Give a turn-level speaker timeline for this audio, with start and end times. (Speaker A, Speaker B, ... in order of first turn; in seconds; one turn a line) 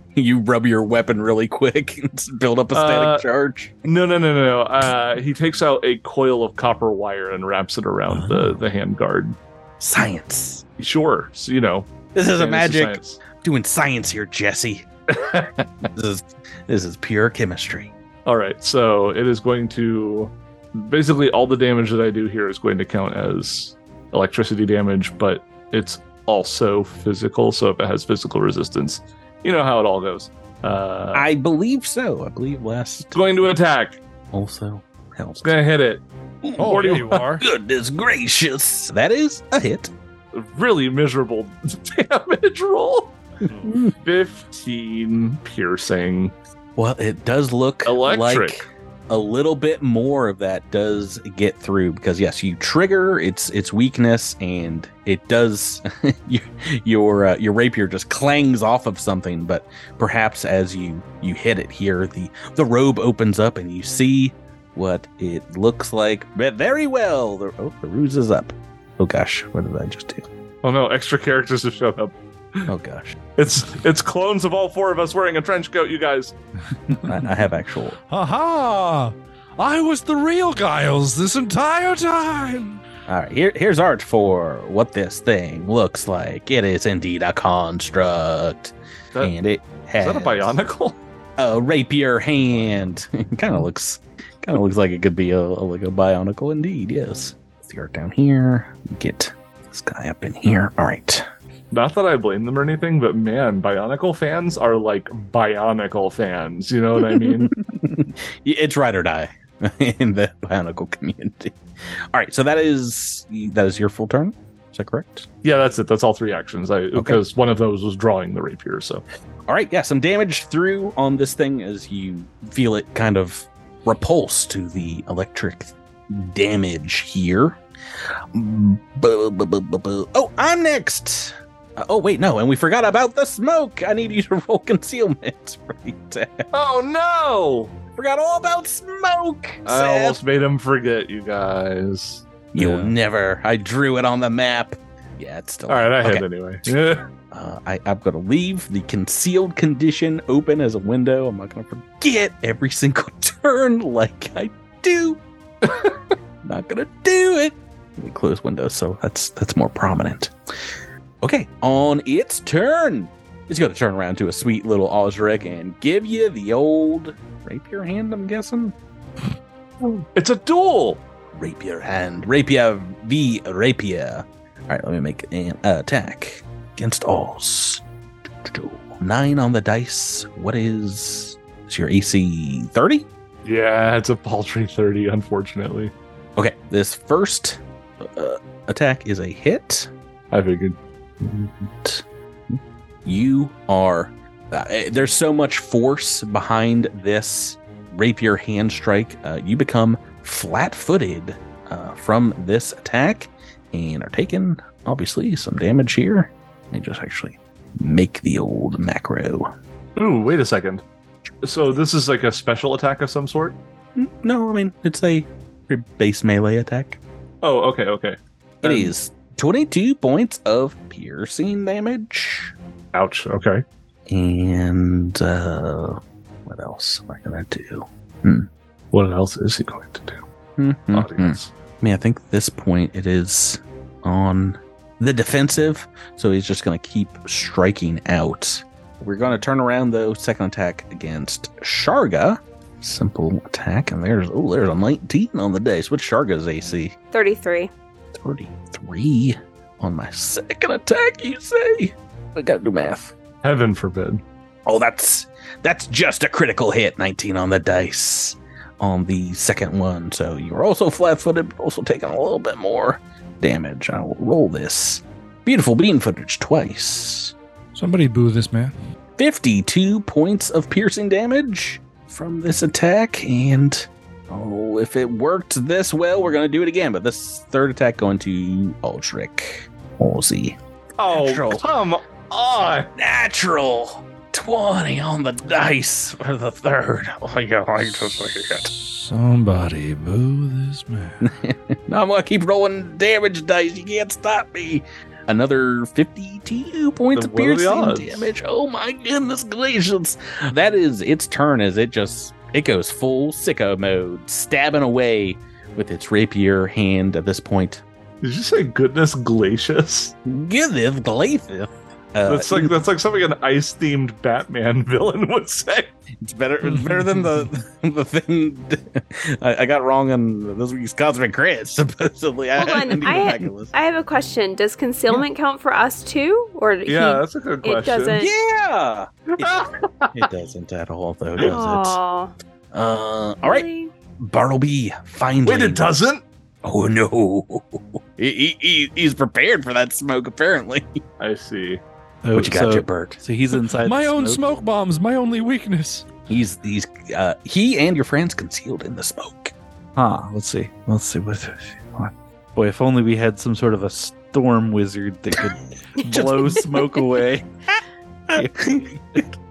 Speaker A: 0.1-3.7
Speaker B: 2.7-3.2
Speaker B: 3.8-9.4
Speaker A: 8.1-8.6
Speaker A: 9.8-10.7
Speaker B: 10.8-13.2
Speaker A: 12.1-14.9
Speaker B: 15.1-15.9
Speaker A: 15.9-17.9
Speaker B: 18.3-31.3
Speaker A: 31.1-33.2
Speaker B: 33.1-34.0
Speaker A: 34.3-35.6
Speaker B: 35.4-36.0
Speaker A: 36.4-39.9
Speaker C: 36.6-37.4
Speaker B: 36.6-37.2
Speaker B: 40.3-46.3
Speaker A: 43.6-43.9
Speaker A: 46.8-70.3
Speaker B: 47.8-48.6
Speaker B: 70.6-72.7
Speaker A: 72.7-73.2
Speaker B: 73.4-76.3
Speaker C: 76.9-77.2
Speaker A: 77.0-78.0
Speaker C: 78.1-82.8
Speaker A: 83.1-90.5
Speaker B: 90.0-91.0
Speaker A: 91.4-101.2
Speaker B: 101.7-107.5
Speaker A: 107.0-111.6
Speaker A: 112.1-115.3
Speaker B: 115.4-119.0
Speaker A: 117.0-117.2
Speaker A: 119.5-127.6
Speaker A: 128.3-136.5
Speaker B: 136.5-137.7
Speaker A: 137.9-140.2
Speaker B: 139.7-142.9
Speaker A: 142.5-146.7
Speaker B: 145.7-147.0
Speaker A: 147.3-155.2
Speaker B: 155.6-155.9
Speaker A: 156.4-160.3
Speaker A: 161.2-168.7
Speaker B: 169.8-171.0
Speaker A: 171.3-177.8
Speaker A: 178.4-183.1
Speaker B: 183.4-185.9
Speaker A: 186.4-189.9
Speaker B: 190.3-190.8
Speaker A: 191.2-209.5
Speaker B: 209.9-210.8
Speaker B: 211.4-213.6
Speaker A: 213.9-217.0
Speaker B: 217.4-218.9
Speaker A: 218.6-222.5
Speaker B: 222.9-223.6
Speaker A: 224.1-228.5
Speaker B: 228.9-230.2
Speaker A: 230.6-246.9
Speaker B: 230.9-231.5
Speaker D: 247.1-247.7
Speaker A: 248.1-253.1
Speaker B: 253.4-254.2
Speaker A: 254.7-267.4
Speaker C: 267.7-268.7
Speaker A: 269.2-280.6
Speaker B: 281.0-282.9
Speaker A: 281.1-281.6
Speaker A: 282.9-288.7
Speaker C: 288.6-291.3
Speaker A: 291.2-307.8
Speaker B: 297.1-298.3
Speaker B: 308.2-310.1
Speaker A: 310.2-312.7
Speaker B: 312.3-315.9
Speaker A: 316.2-323.7
Speaker D: 322.6-328.3
Speaker B: 326.9-328.2
Speaker A: 328.2-332.0
Speaker B: 329.4-330.2
Speaker D: 331.4-332.3
Speaker A: 332.7-333.7
Speaker D: 333.4-333.9
Speaker A: 334.2-336.1
Speaker B: 335.4-336.2
Speaker A: 336.6-341.0
Speaker B: 341.2-341.8
Speaker E: 342.2-344.4
Speaker A: 342.3-343.2
Speaker C: 343.8-346.1
Speaker A: 346.3-349.5
Speaker E: 349.9-357.5
Speaker A: 356.1-356.9
Speaker A: 358.3-359.2
Speaker E: 358.4-359.3